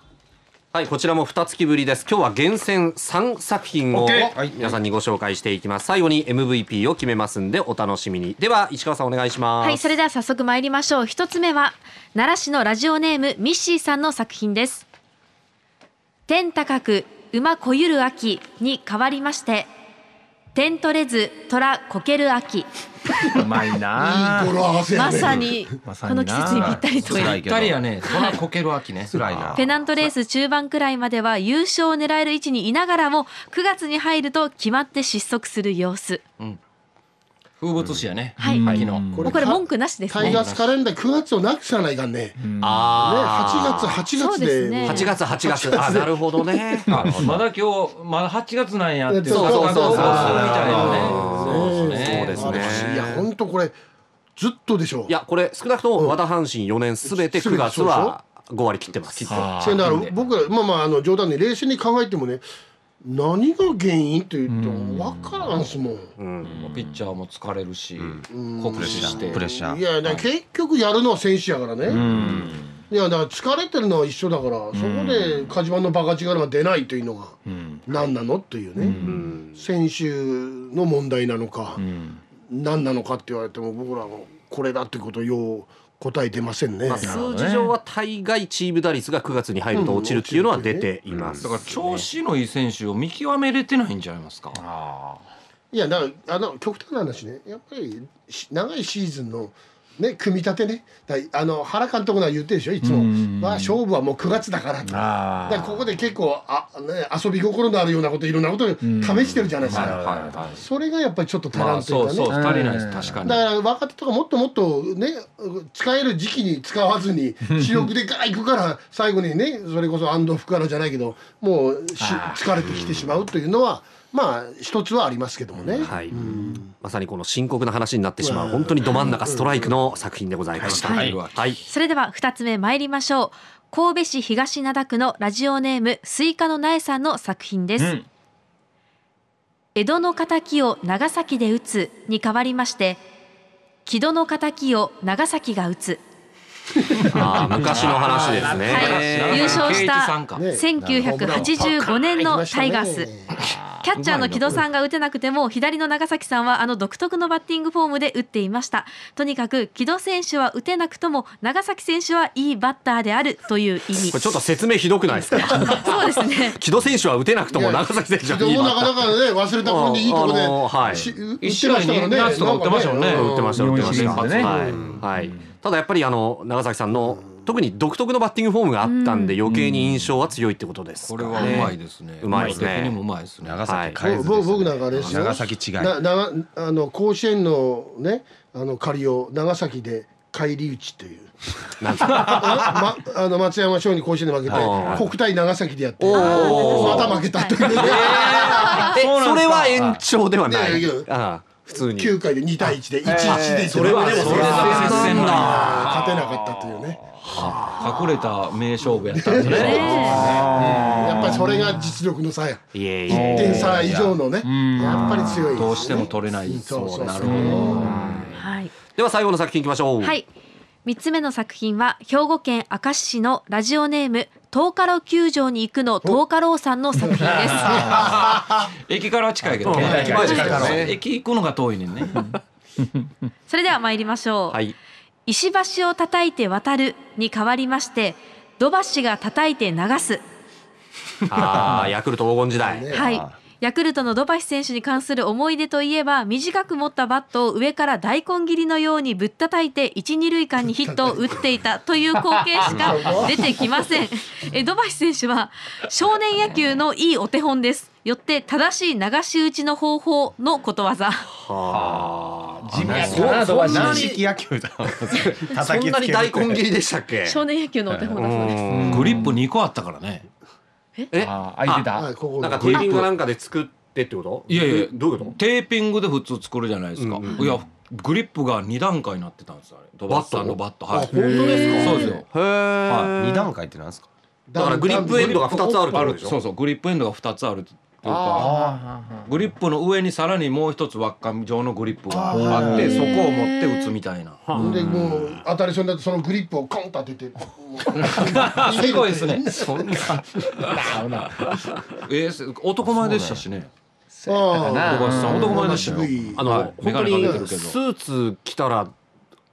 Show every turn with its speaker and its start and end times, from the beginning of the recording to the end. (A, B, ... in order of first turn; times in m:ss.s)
0:00.7-0:09.9 A
0:03.9-0:04.3 B
0:09.6-0:14.9 C
0:16.3-0:19.7 C
0:20.5-0:22.7 C
0:23.3-0:24.6 B
0:24.0-0:25.7 D
0:24.9-0:27.4 C
0:25.8-0:26.8 B
0:26.5-0:28.2 E
0:27.0-0:29.6 F
0:28.0-0:28.4 C
0:29.1-0:29.8 E
0:29.6-0:36.2 C
0:37.6-0:39.4 F
0:38.4-0:39.4 B
0:38.4-0:38.7 C
0:38.6-0:38.9 A
0:39.2-0:42.4 D
0:39.3-0:40.3 C
0:40.2-0:40.8 F
0:42.4-0:42.8 B
0:42.6-0:44.1 A
0:43.0-0:46.4 D
0:44.2-0:45.1 C
0:44.8-0:47.3 A
0:46.9-0:52.8 F
0:49.1-0:53.7 D
0:49.3-0:53.3 A
0:49.8-0:51.1 E
0:54.4-0:55.2 D
0:55.1-0:59.5 A
0:57.0-0:58.2 D
0:59.2-1:00.2 F
0:59.3-0:59.9 B
0:59.6-1:02.4 D
1:03.0-1:06.1 D
1:04.5-1:05.6 B
1:06.2-1:06.6 A
1:06.5-1:06.8 B
1:06.6-1:09.5 F
1:08.3-1:12.3 D
1:08.8-1:09.9 E
1:11.9-1:12.7 B
1:11.9-1:12.4 F
1:12.9-1:21.8 D
1:14.7-1:15.5 B
1:17.5-1:17.8 B
1:18.8-1:19.2 B
1:19.0-1:19.6 A
1:21.8-1:22.2 B
1:22.5-1:27.2 D
1:26.9-1:32.0 A
1:26.9-1:27.7 B
1:29.7-1:30.9 D
1:31.4-1:34.6 F
1:34.5-1:35.2 B
1:35.7-1:52.5 D
1:42.8-1:43.8 B
1:44.8-1:45.7 B
1:48.8-1:50.4 B
1:49.6-1:50.6 F
1:51.5-1:53.4 F
1:52.3-1:53.1 B
1:53.2-2:06.7 D
2:02.0-2:02.4 B
2:05.8-2:06.2 A
2:06.8-2:11.6 A
2:08.2-2:09.7 D
2:10.5-2:11.2 E
2:10.6-2:11.5 F
2:11.7-2:17.9 C
2:17.8-2:18.0 B
2:19.8-2:23.0 C
2:23.9-2:26.0 C
2:27.0-2:29.1 A
2:27.2-2:28.6 D
2:27.5-2:29.4 B
2:28.6-2:30.5 F
2:28.6-2:33.1 C
2:30.3-2:33.5 D
2:33.8-2:44.4 C
2:34.0-2:34.6 F
2:44.0-2:51.1 A
2:45.4-2:46.6 C
2:47.5-2:55.0 D
2:50.9-2:54.5 F
2:53.0-3:03.0 A
2:53.6-2:54.9 B
2:58.8-2:59.4 C
2:59.5-2:59.8 B
3:01.0-3:03.7 F
3:01.3-3:01.7 C
3:02.3-3:02.9 E
3:03.4-3:06.0 E
3:03.6-3:04.0 A
3:04.0-3:18.9 D
3:05.0-3:05.2 A
3:11.8-3:12.6 A
3:14.5-3:15.1 A
3:14.6-3:15.0 F
3:16.0-3:17.2 A
3:16.2-3:17.8 C
3:16.2-3:17.1 F
3:17.7-3:20.0 F
3:17.7-3:22.1 A
3:18.3-3:19.0 C
3:20.5-3:21.1 D
3:21.8-3:27.0 D
3:23.1-3:26.5 B
3:23.7-3:25.8 A
3:23.7-3:25.9 F
3:27.2-3:27.8 A
3:27.4-3:30.4 F
3:29.0-3:37.9 D
3:29.5-3:30.3 C
3:29.6-3:30.5 A
3:30.1-3:31.8 B
3:32.7-3:34.1 A
3:33.1-3:33.7 B
3:34.4-3:35.5 B
3:34.8-3:38.4 F
3:36.8-3:40.2 A
3:37.2-3:38.0 B
3:38.3-3:38.7 C
3:40.0-3:40.3 C
3:40.9-3:47.7 C
3:47.0-3:48.1 D
3:47.2-3:48.1 B
3:47.7-3:48.0 A
3:47.8-3:52.3 F
3:49.6-3:50.9 A
3:49.7-3:50.9 E
3:49.7-3:50.7 B
3:49.9-3:50.7 D
3:50.1-3:50.6 C
3:53.5-3:54.6 C
3:54.5-3:54.8 A
3:55.3-4:00.2 C
4:01.3-4:02.9 A
4:02.6-4:03.1 D
4:02.9-4:21.3 C
4:10.7-4:11.4 D
4:12.6-4:13.7 D
4:21.3-4:24.2 A
4:21.7-4:22.1 B
4:22.6-4:24.2 B
4:22.8-4:26.6 E
4:25.0-4:27.4 A
4:27.2-4:28.7 C
4:28.1-4:29.3 A
4:28.7-4:29.3 B
4:28.8-4:30.3 F
4:31.1-4:35.4 A
4:31.2-4:32.1 B
4:31.9-4:33.0 D
4:32.7-4:33.0 C
4:34.5-4:42.2 F
4:37.0-4:37.4 A
4:40.1-4:43.5 A
4:40.9-4:42.0 D
4:41.9-4:42.1 C
4:42.9-4:43.1 F
4:43.2-4:44.1 E
4:44.5-4:46.2 D
4:44.6-4:46.4 A
4:44.9-4:48.6 F
4:48.1-4:49.3 B
4:49.3-4:55.2 F
4:52.2-4:52.8 E
4:52.3-4:53.1 B
4:52.5-4:53.2 D
4:52.8-4:53.9 C
4:54.6-5:01.0 D
4:54.6-4:54.8 B
4:57.9-5:00.9 F
5:00.7-5:01.5 B
5:02.0-5:03.7 F
5:04.1-5:05.7 B
5:04.3-5:07.5 D
5:04.6-5:07.8 F
5:06.4-5:08.9 A